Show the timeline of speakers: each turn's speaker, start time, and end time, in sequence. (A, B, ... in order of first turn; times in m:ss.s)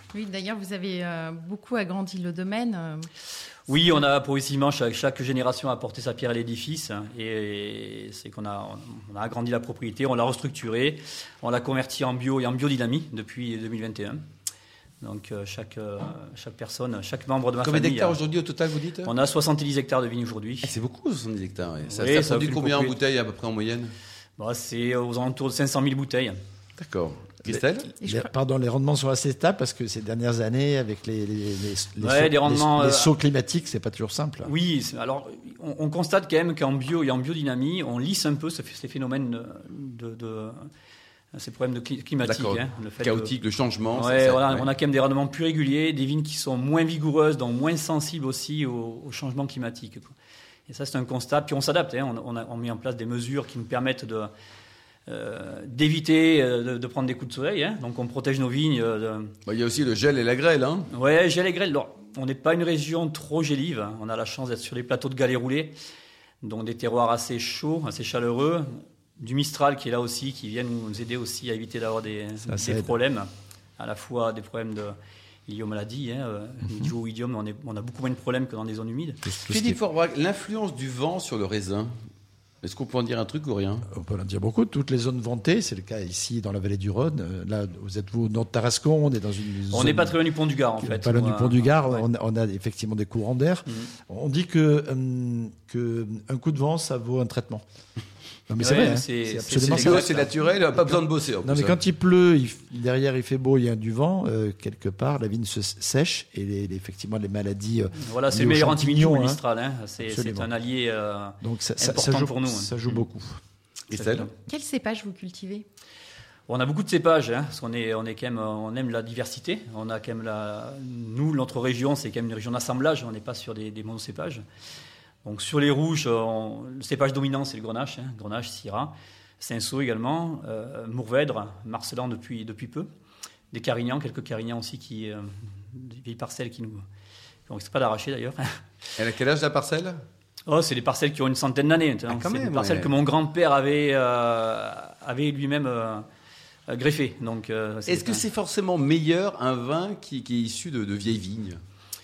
0:00.1-0:03.1 A
0:03.7-0:14.2 B
0:15.0-0:18.2 B
0:17.6-0:19.1 C
0:19.0-0:20.7 B
0:20.6-0:23.9 C
0:21.9-0:22.9 B
0:24.4-0:26.4 B
0:26.8-0:27.9 C
0:27.4-0:34.5 D
0:28.0-0:28.3 A
0:32.0-0:33.1 B
0:34.4-0:40.7 B
0:41.3-0:43.3 B
0:42.2-0:44.7 C
0:43.9-0:50.1 B
0:50.7-0:54.3 B
0:55.1-0:59.3 B
0:59.4-1:00.9 C
1:00.9-1:05.8 B
1:06.4-1:19.3 B
1:12.4-1:12.9 D
1:19.3-1:19.8 D
1:19.4-1:21.9 C
1:22.6-1:23.8 C
1:23.9-1:30.2 D
1:29.7-1:32.0 B
1:30.8-1:37.6 D
1:38.5-1:49.4 D
1:38.6-1:40.3 B
1:39.6-1:41.7 C
1:48.0-1:53.0 B
1:50.0-1:50.5 D
1:51.4-1:53.4 D
1:53.9-1:54.3 C
1:53.9-1:54.3 B
1:54.4-1:55.6 A
1:56.5-2:04.4 B
2:05.2-2:12.9 B
2:13.5-2:16.8 B
2:17.5-2:18.6 B
2:19.0-2:20.0 C
2:20.5-2:26.0 B
2:22.0-2:22.9 C
2:26.7-2:28.2 B
2:27.9-2:31.6 C